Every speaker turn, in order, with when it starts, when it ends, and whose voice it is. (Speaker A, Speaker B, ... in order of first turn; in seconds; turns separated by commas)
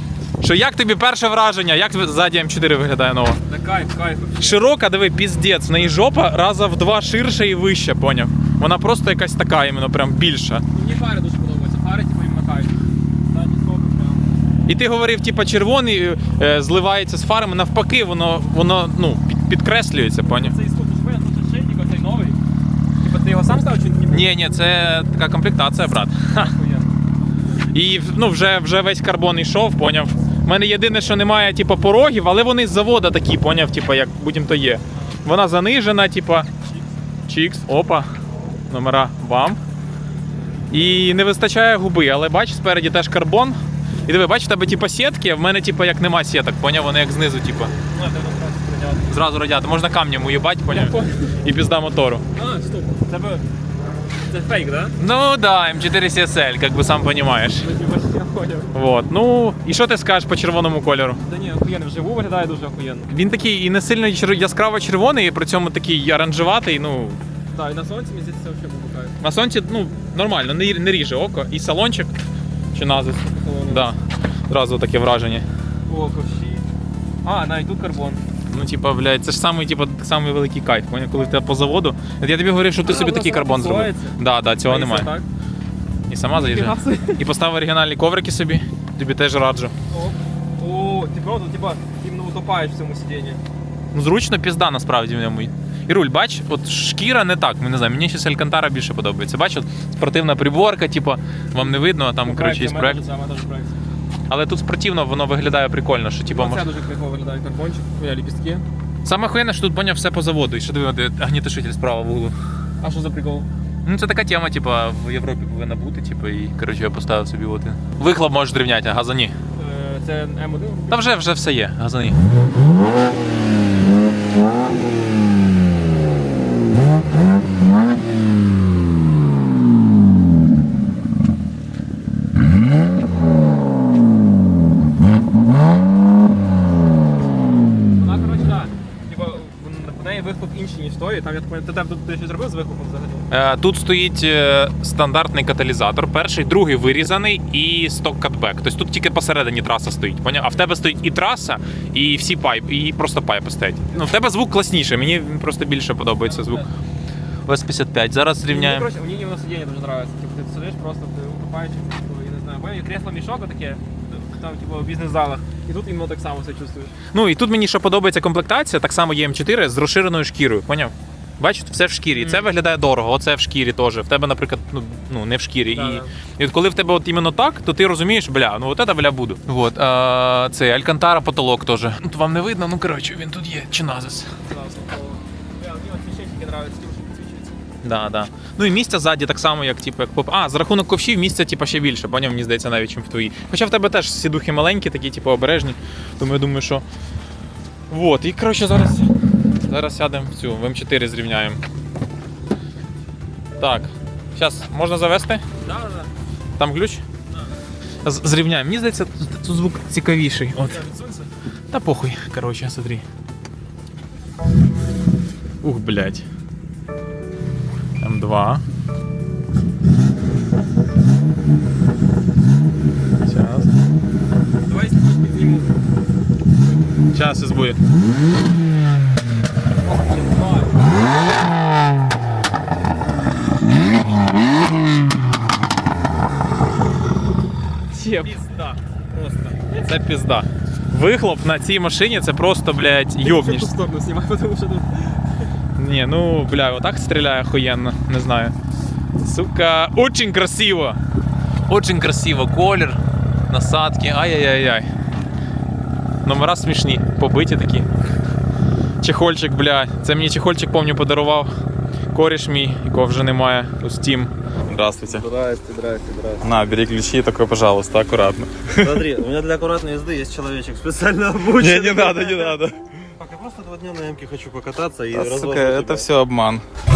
Speaker A: 0.4-3.4, Speaker B: 3.5-4.6, Speaker A: 4.4-10.6, Speaker B: 5.7-6.0, Speaker B: 10.7-12.7, Speaker B: 13.2-14.4, Speaker A: 14.7-20.5, Speaker B: 20.2-22.4, Speaker B: 23.0-24.3, Speaker A: 24.1-26.5, Speaker B: 26.3-27.6, Speaker A: 27.7-36.5, Speaker A: 37.2-38.1, Speaker A: 38.7-39.6, Speaker A: 40.7-47.7, Speaker B: 47.9-49.2, Speaker A: 49.1-52.2, Speaker B: 50.7-51.3, Speaker B: 52.4-53.4, Speaker B: 54.3-55.0, Speaker A: 55.0-57.7, Speaker B: 57.6-58.7, Speaker A: 58.7-61.2, Speaker B: 61.2-63.1, Speaker A: 63.1-67.2, Speaker B: 67.5-69.2, Speaker A: 69.2-72.1, Speaker A: 72.7-74.0, Speaker B: 73.2-73.9, Speaker A: 74.5-75.4, Speaker B: 75.9-76.7, Speaker B: 77.2-78.2, Speaker A: 78.5-85.1, Speaker B: 82.8-85.2, Speaker A: 86.1-89.7, Speaker B: 86.3-87.2, Speaker B: 89.9-93.4, Speaker A: 93.9-103.0, Speaker B: 101.6-103.8, Speaker A: 104.3-106.7, Speaker B: 106.3-108.6, Speaker A: 109.0-112.3, Speaker B: 112.8-113.5, Speaker A: 113.8-119.3, Speaker B: 119.5-121.0, Speaker A: 120.9-122.2, Speaker B: 137.9-143.3, Speaker A: 143.3-156.6, Speaker B: 156.2-156.7, Speaker A: 157.4-158.9, Speaker B: 158.5-166.9, Speaker A: 167.1-184.3, Speaker B: 172.1-172.4, Speaker B: 175.7-176.1, Speaker B: 184.4-187.6, Speaker A: 187.8-196.8, Speaker A: 197.9-199.1, Speaker A: 199.6-201.6, Speaker A: 203.6-205.4, Speaker B: 205.6-206.1, Speaker A: 206.6-207.0, Speaker B: 207.3-207.6, Speaker A: 208.0-210.8, Speaker B: 210.6-211.3, Speaker A: 211.7-213.0, Speaker A: 215.6-216.2, Speaker A: 218.0-218.6, Speaker A: 223.2-223.7, Speaker B: 224.7-225.7, Speaker A: 227.1-227.8, Speaker B: 229.8-231.0, Speaker B: 237.9-239.8, Speaker A: 238.0-238.6, Speaker A: 239.8-243.7, Speaker B: 243.2-245.5, Speaker A: 245.8-248.5, Speaker A: 249.2-251.0, Speaker A: 251.7-253.0, Speaker A: 253.5-254.9, Speaker A: 256.2-257.9, Speaker A: 259.0-261.5, Speaker A: 262.1-265.2, Speaker C: 264.7-266.5, Speaker A: 266.4-269.0, Speaker C: 268.8-272.6, Speaker A: 271.6-272.8, Speaker C: 273.2-276.1, Speaker A: 275.1-276.6